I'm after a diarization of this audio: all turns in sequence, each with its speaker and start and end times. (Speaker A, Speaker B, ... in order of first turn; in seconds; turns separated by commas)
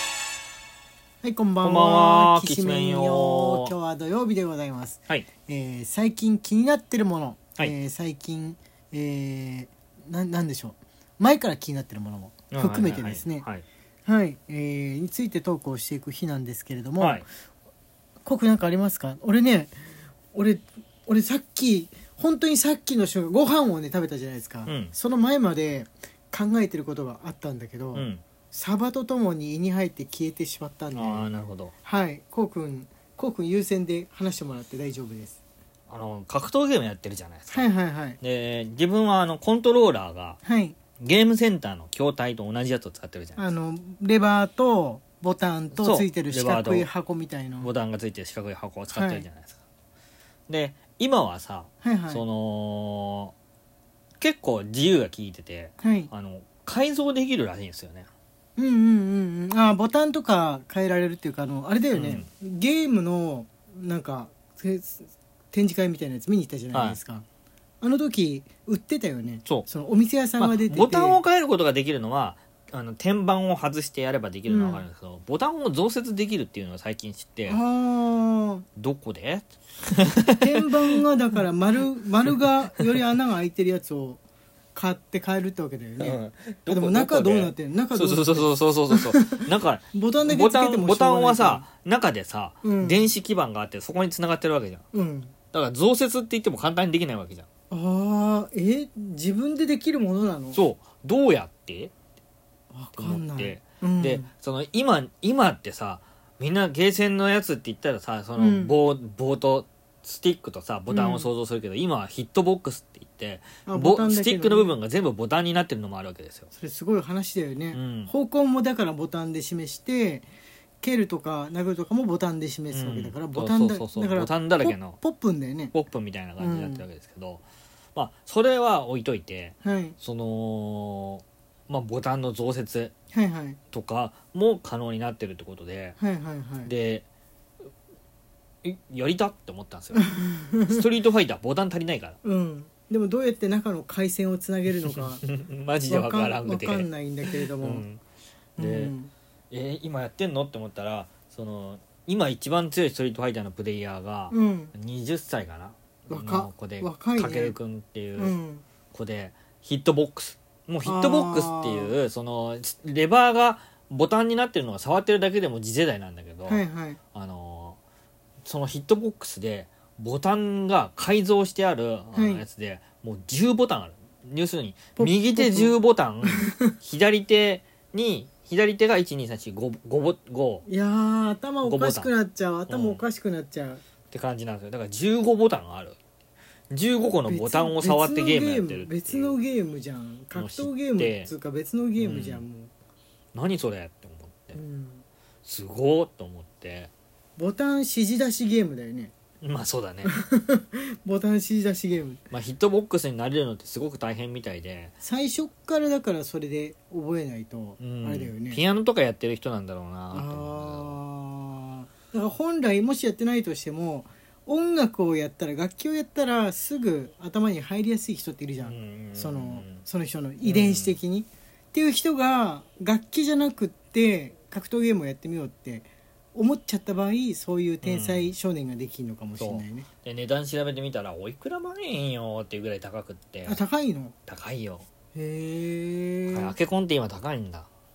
Speaker A: 1.2-13.5, Speaker B: 1.6-3.8, Speaker B: 12.5-13.6, Speaker A: 14.1-17.2, Speaker B: 17.0-17.2, Speaker A: 18.2-19.8, Speaker A: 20.3-31.3, Speaker B: 24.6-24.9, Speaker B: 27.9-28.2, Speaker B: 30.9-31.7, Speaker A: 31.9-35.4, Speaker B: 35.9-37.7, Speaker A: 37.5-38.2, Speaker B: 38.2-40.4, Speaker A: 40.4-40.8, Speaker B: 41.0-43.4, Speaker A: 43.4-47.7, Speaker B: 45.8-46.9, Speaker B: 47.6-49.6, Speaker A: 48.9-49.2, Speaker B: 50.5-53.3, Speaker A: 51.8-52.2, Speaker B: 54.2-58.1, Speaker A: 55.8-56.1, Speaker A: 58.6-67.2, Speaker B: 61.9-62.3, Speaker B: 66.7-67.0, Speaker A: 67.8-71.2, Speaker B: 70.4-77.6, Speaker A: 74.5-74.8, Speaker A: 77.5-78.6, Speaker B: 78.8-80.7, Speaker A: 80.4-84.2, Speaker A: 84.7-89.4, Speaker B: 86.0-94.8, Speaker A: 89.9-91.6, Speaker A: 92.6-93.1, Speaker A: 94.9-95.3, Speaker B: 95.5-97.5, Speaker A: 97.7-100.6, Speaker B: 100.5-101.9, Speaker A: 102.7-104.3, Speaker B: 103.0-116.5, Speaker A: 108.4-108.7, Speaker A: 110.9-111.3, Speaker A: 113.7-114.7, Speaker A: 116.5-120.2, Speaker B: 117.7-118.1, Speaker A: 120.8-125.7, Speaker B: 122.7-125.0, Speaker B: 125.7-127.4, Speaker A: 126.4-126.8, Speaker B: 127.9-132.9, Speaker A: 129.6-130.0, Speaker A: 133.1-133.6, Speaker B: 133.7-136.0, Speaker A: 136.0-136.7, Speaker B: 136.7-137.0, Speaker B: 138.6-140.1, Speaker A: 139.9-140.8, Speaker B: 140.7-142.2, Speaker A: 142.2-145.2, Speaker B: 145.2-148.0, Speaker A: 145.9-147.8, Speaker B: 148.6-148.9, Speaker A: 148.6-149.1, Speaker B: 149.5-158.3, Speaker A: 154.3-154.7, Speaker A: 156.1-157.5, Speaker A: 158.2-158.7, Speaker B: 158.9-166.6, Speaker A: 160.8-161.9, Speaker A: 166.5-167.0, Speaker B: 167.1-167.8, Speaker B: 168.4-180.7, Speaker A: 172.2-172.4, Speaker A: 175.0-176.7, Speaker A: 180.7-183.8, Speaker B: 181.6-182.1, Speaker B: 182.7-183.0, Speaker B: 184.1-186.0, Speaker B: 186.7-189.4, Speaker A: 187.2-192.7, Speaker B: 190.3-191.3, Speaker B: 192.0-192.4, Speaker B: 193.3-194.6, Speaker A: 194.5-195.0, Speaker B: 195.4-196.9, Speaker A: 197.4-199.1, Speaker B: 199.4-200.1, Speaker A: 200.0-202.2, Speaker B: 202.3-204.9, Speaker A: 205.0-208.6, Speaker B: 207.8-211.0, Speaker A: 210.1-229.9, Speaker B: 218.6-219.8, Speaker B: 220.4-221.0, Speaker B: 227.8-228.3, Speaker B: 229.4-233.6, Speaker A: 233.4-234.2, Speaker B: 234.3-234.8, Speaker A: 235.1-236.5, Speaker B: 236.3-237.7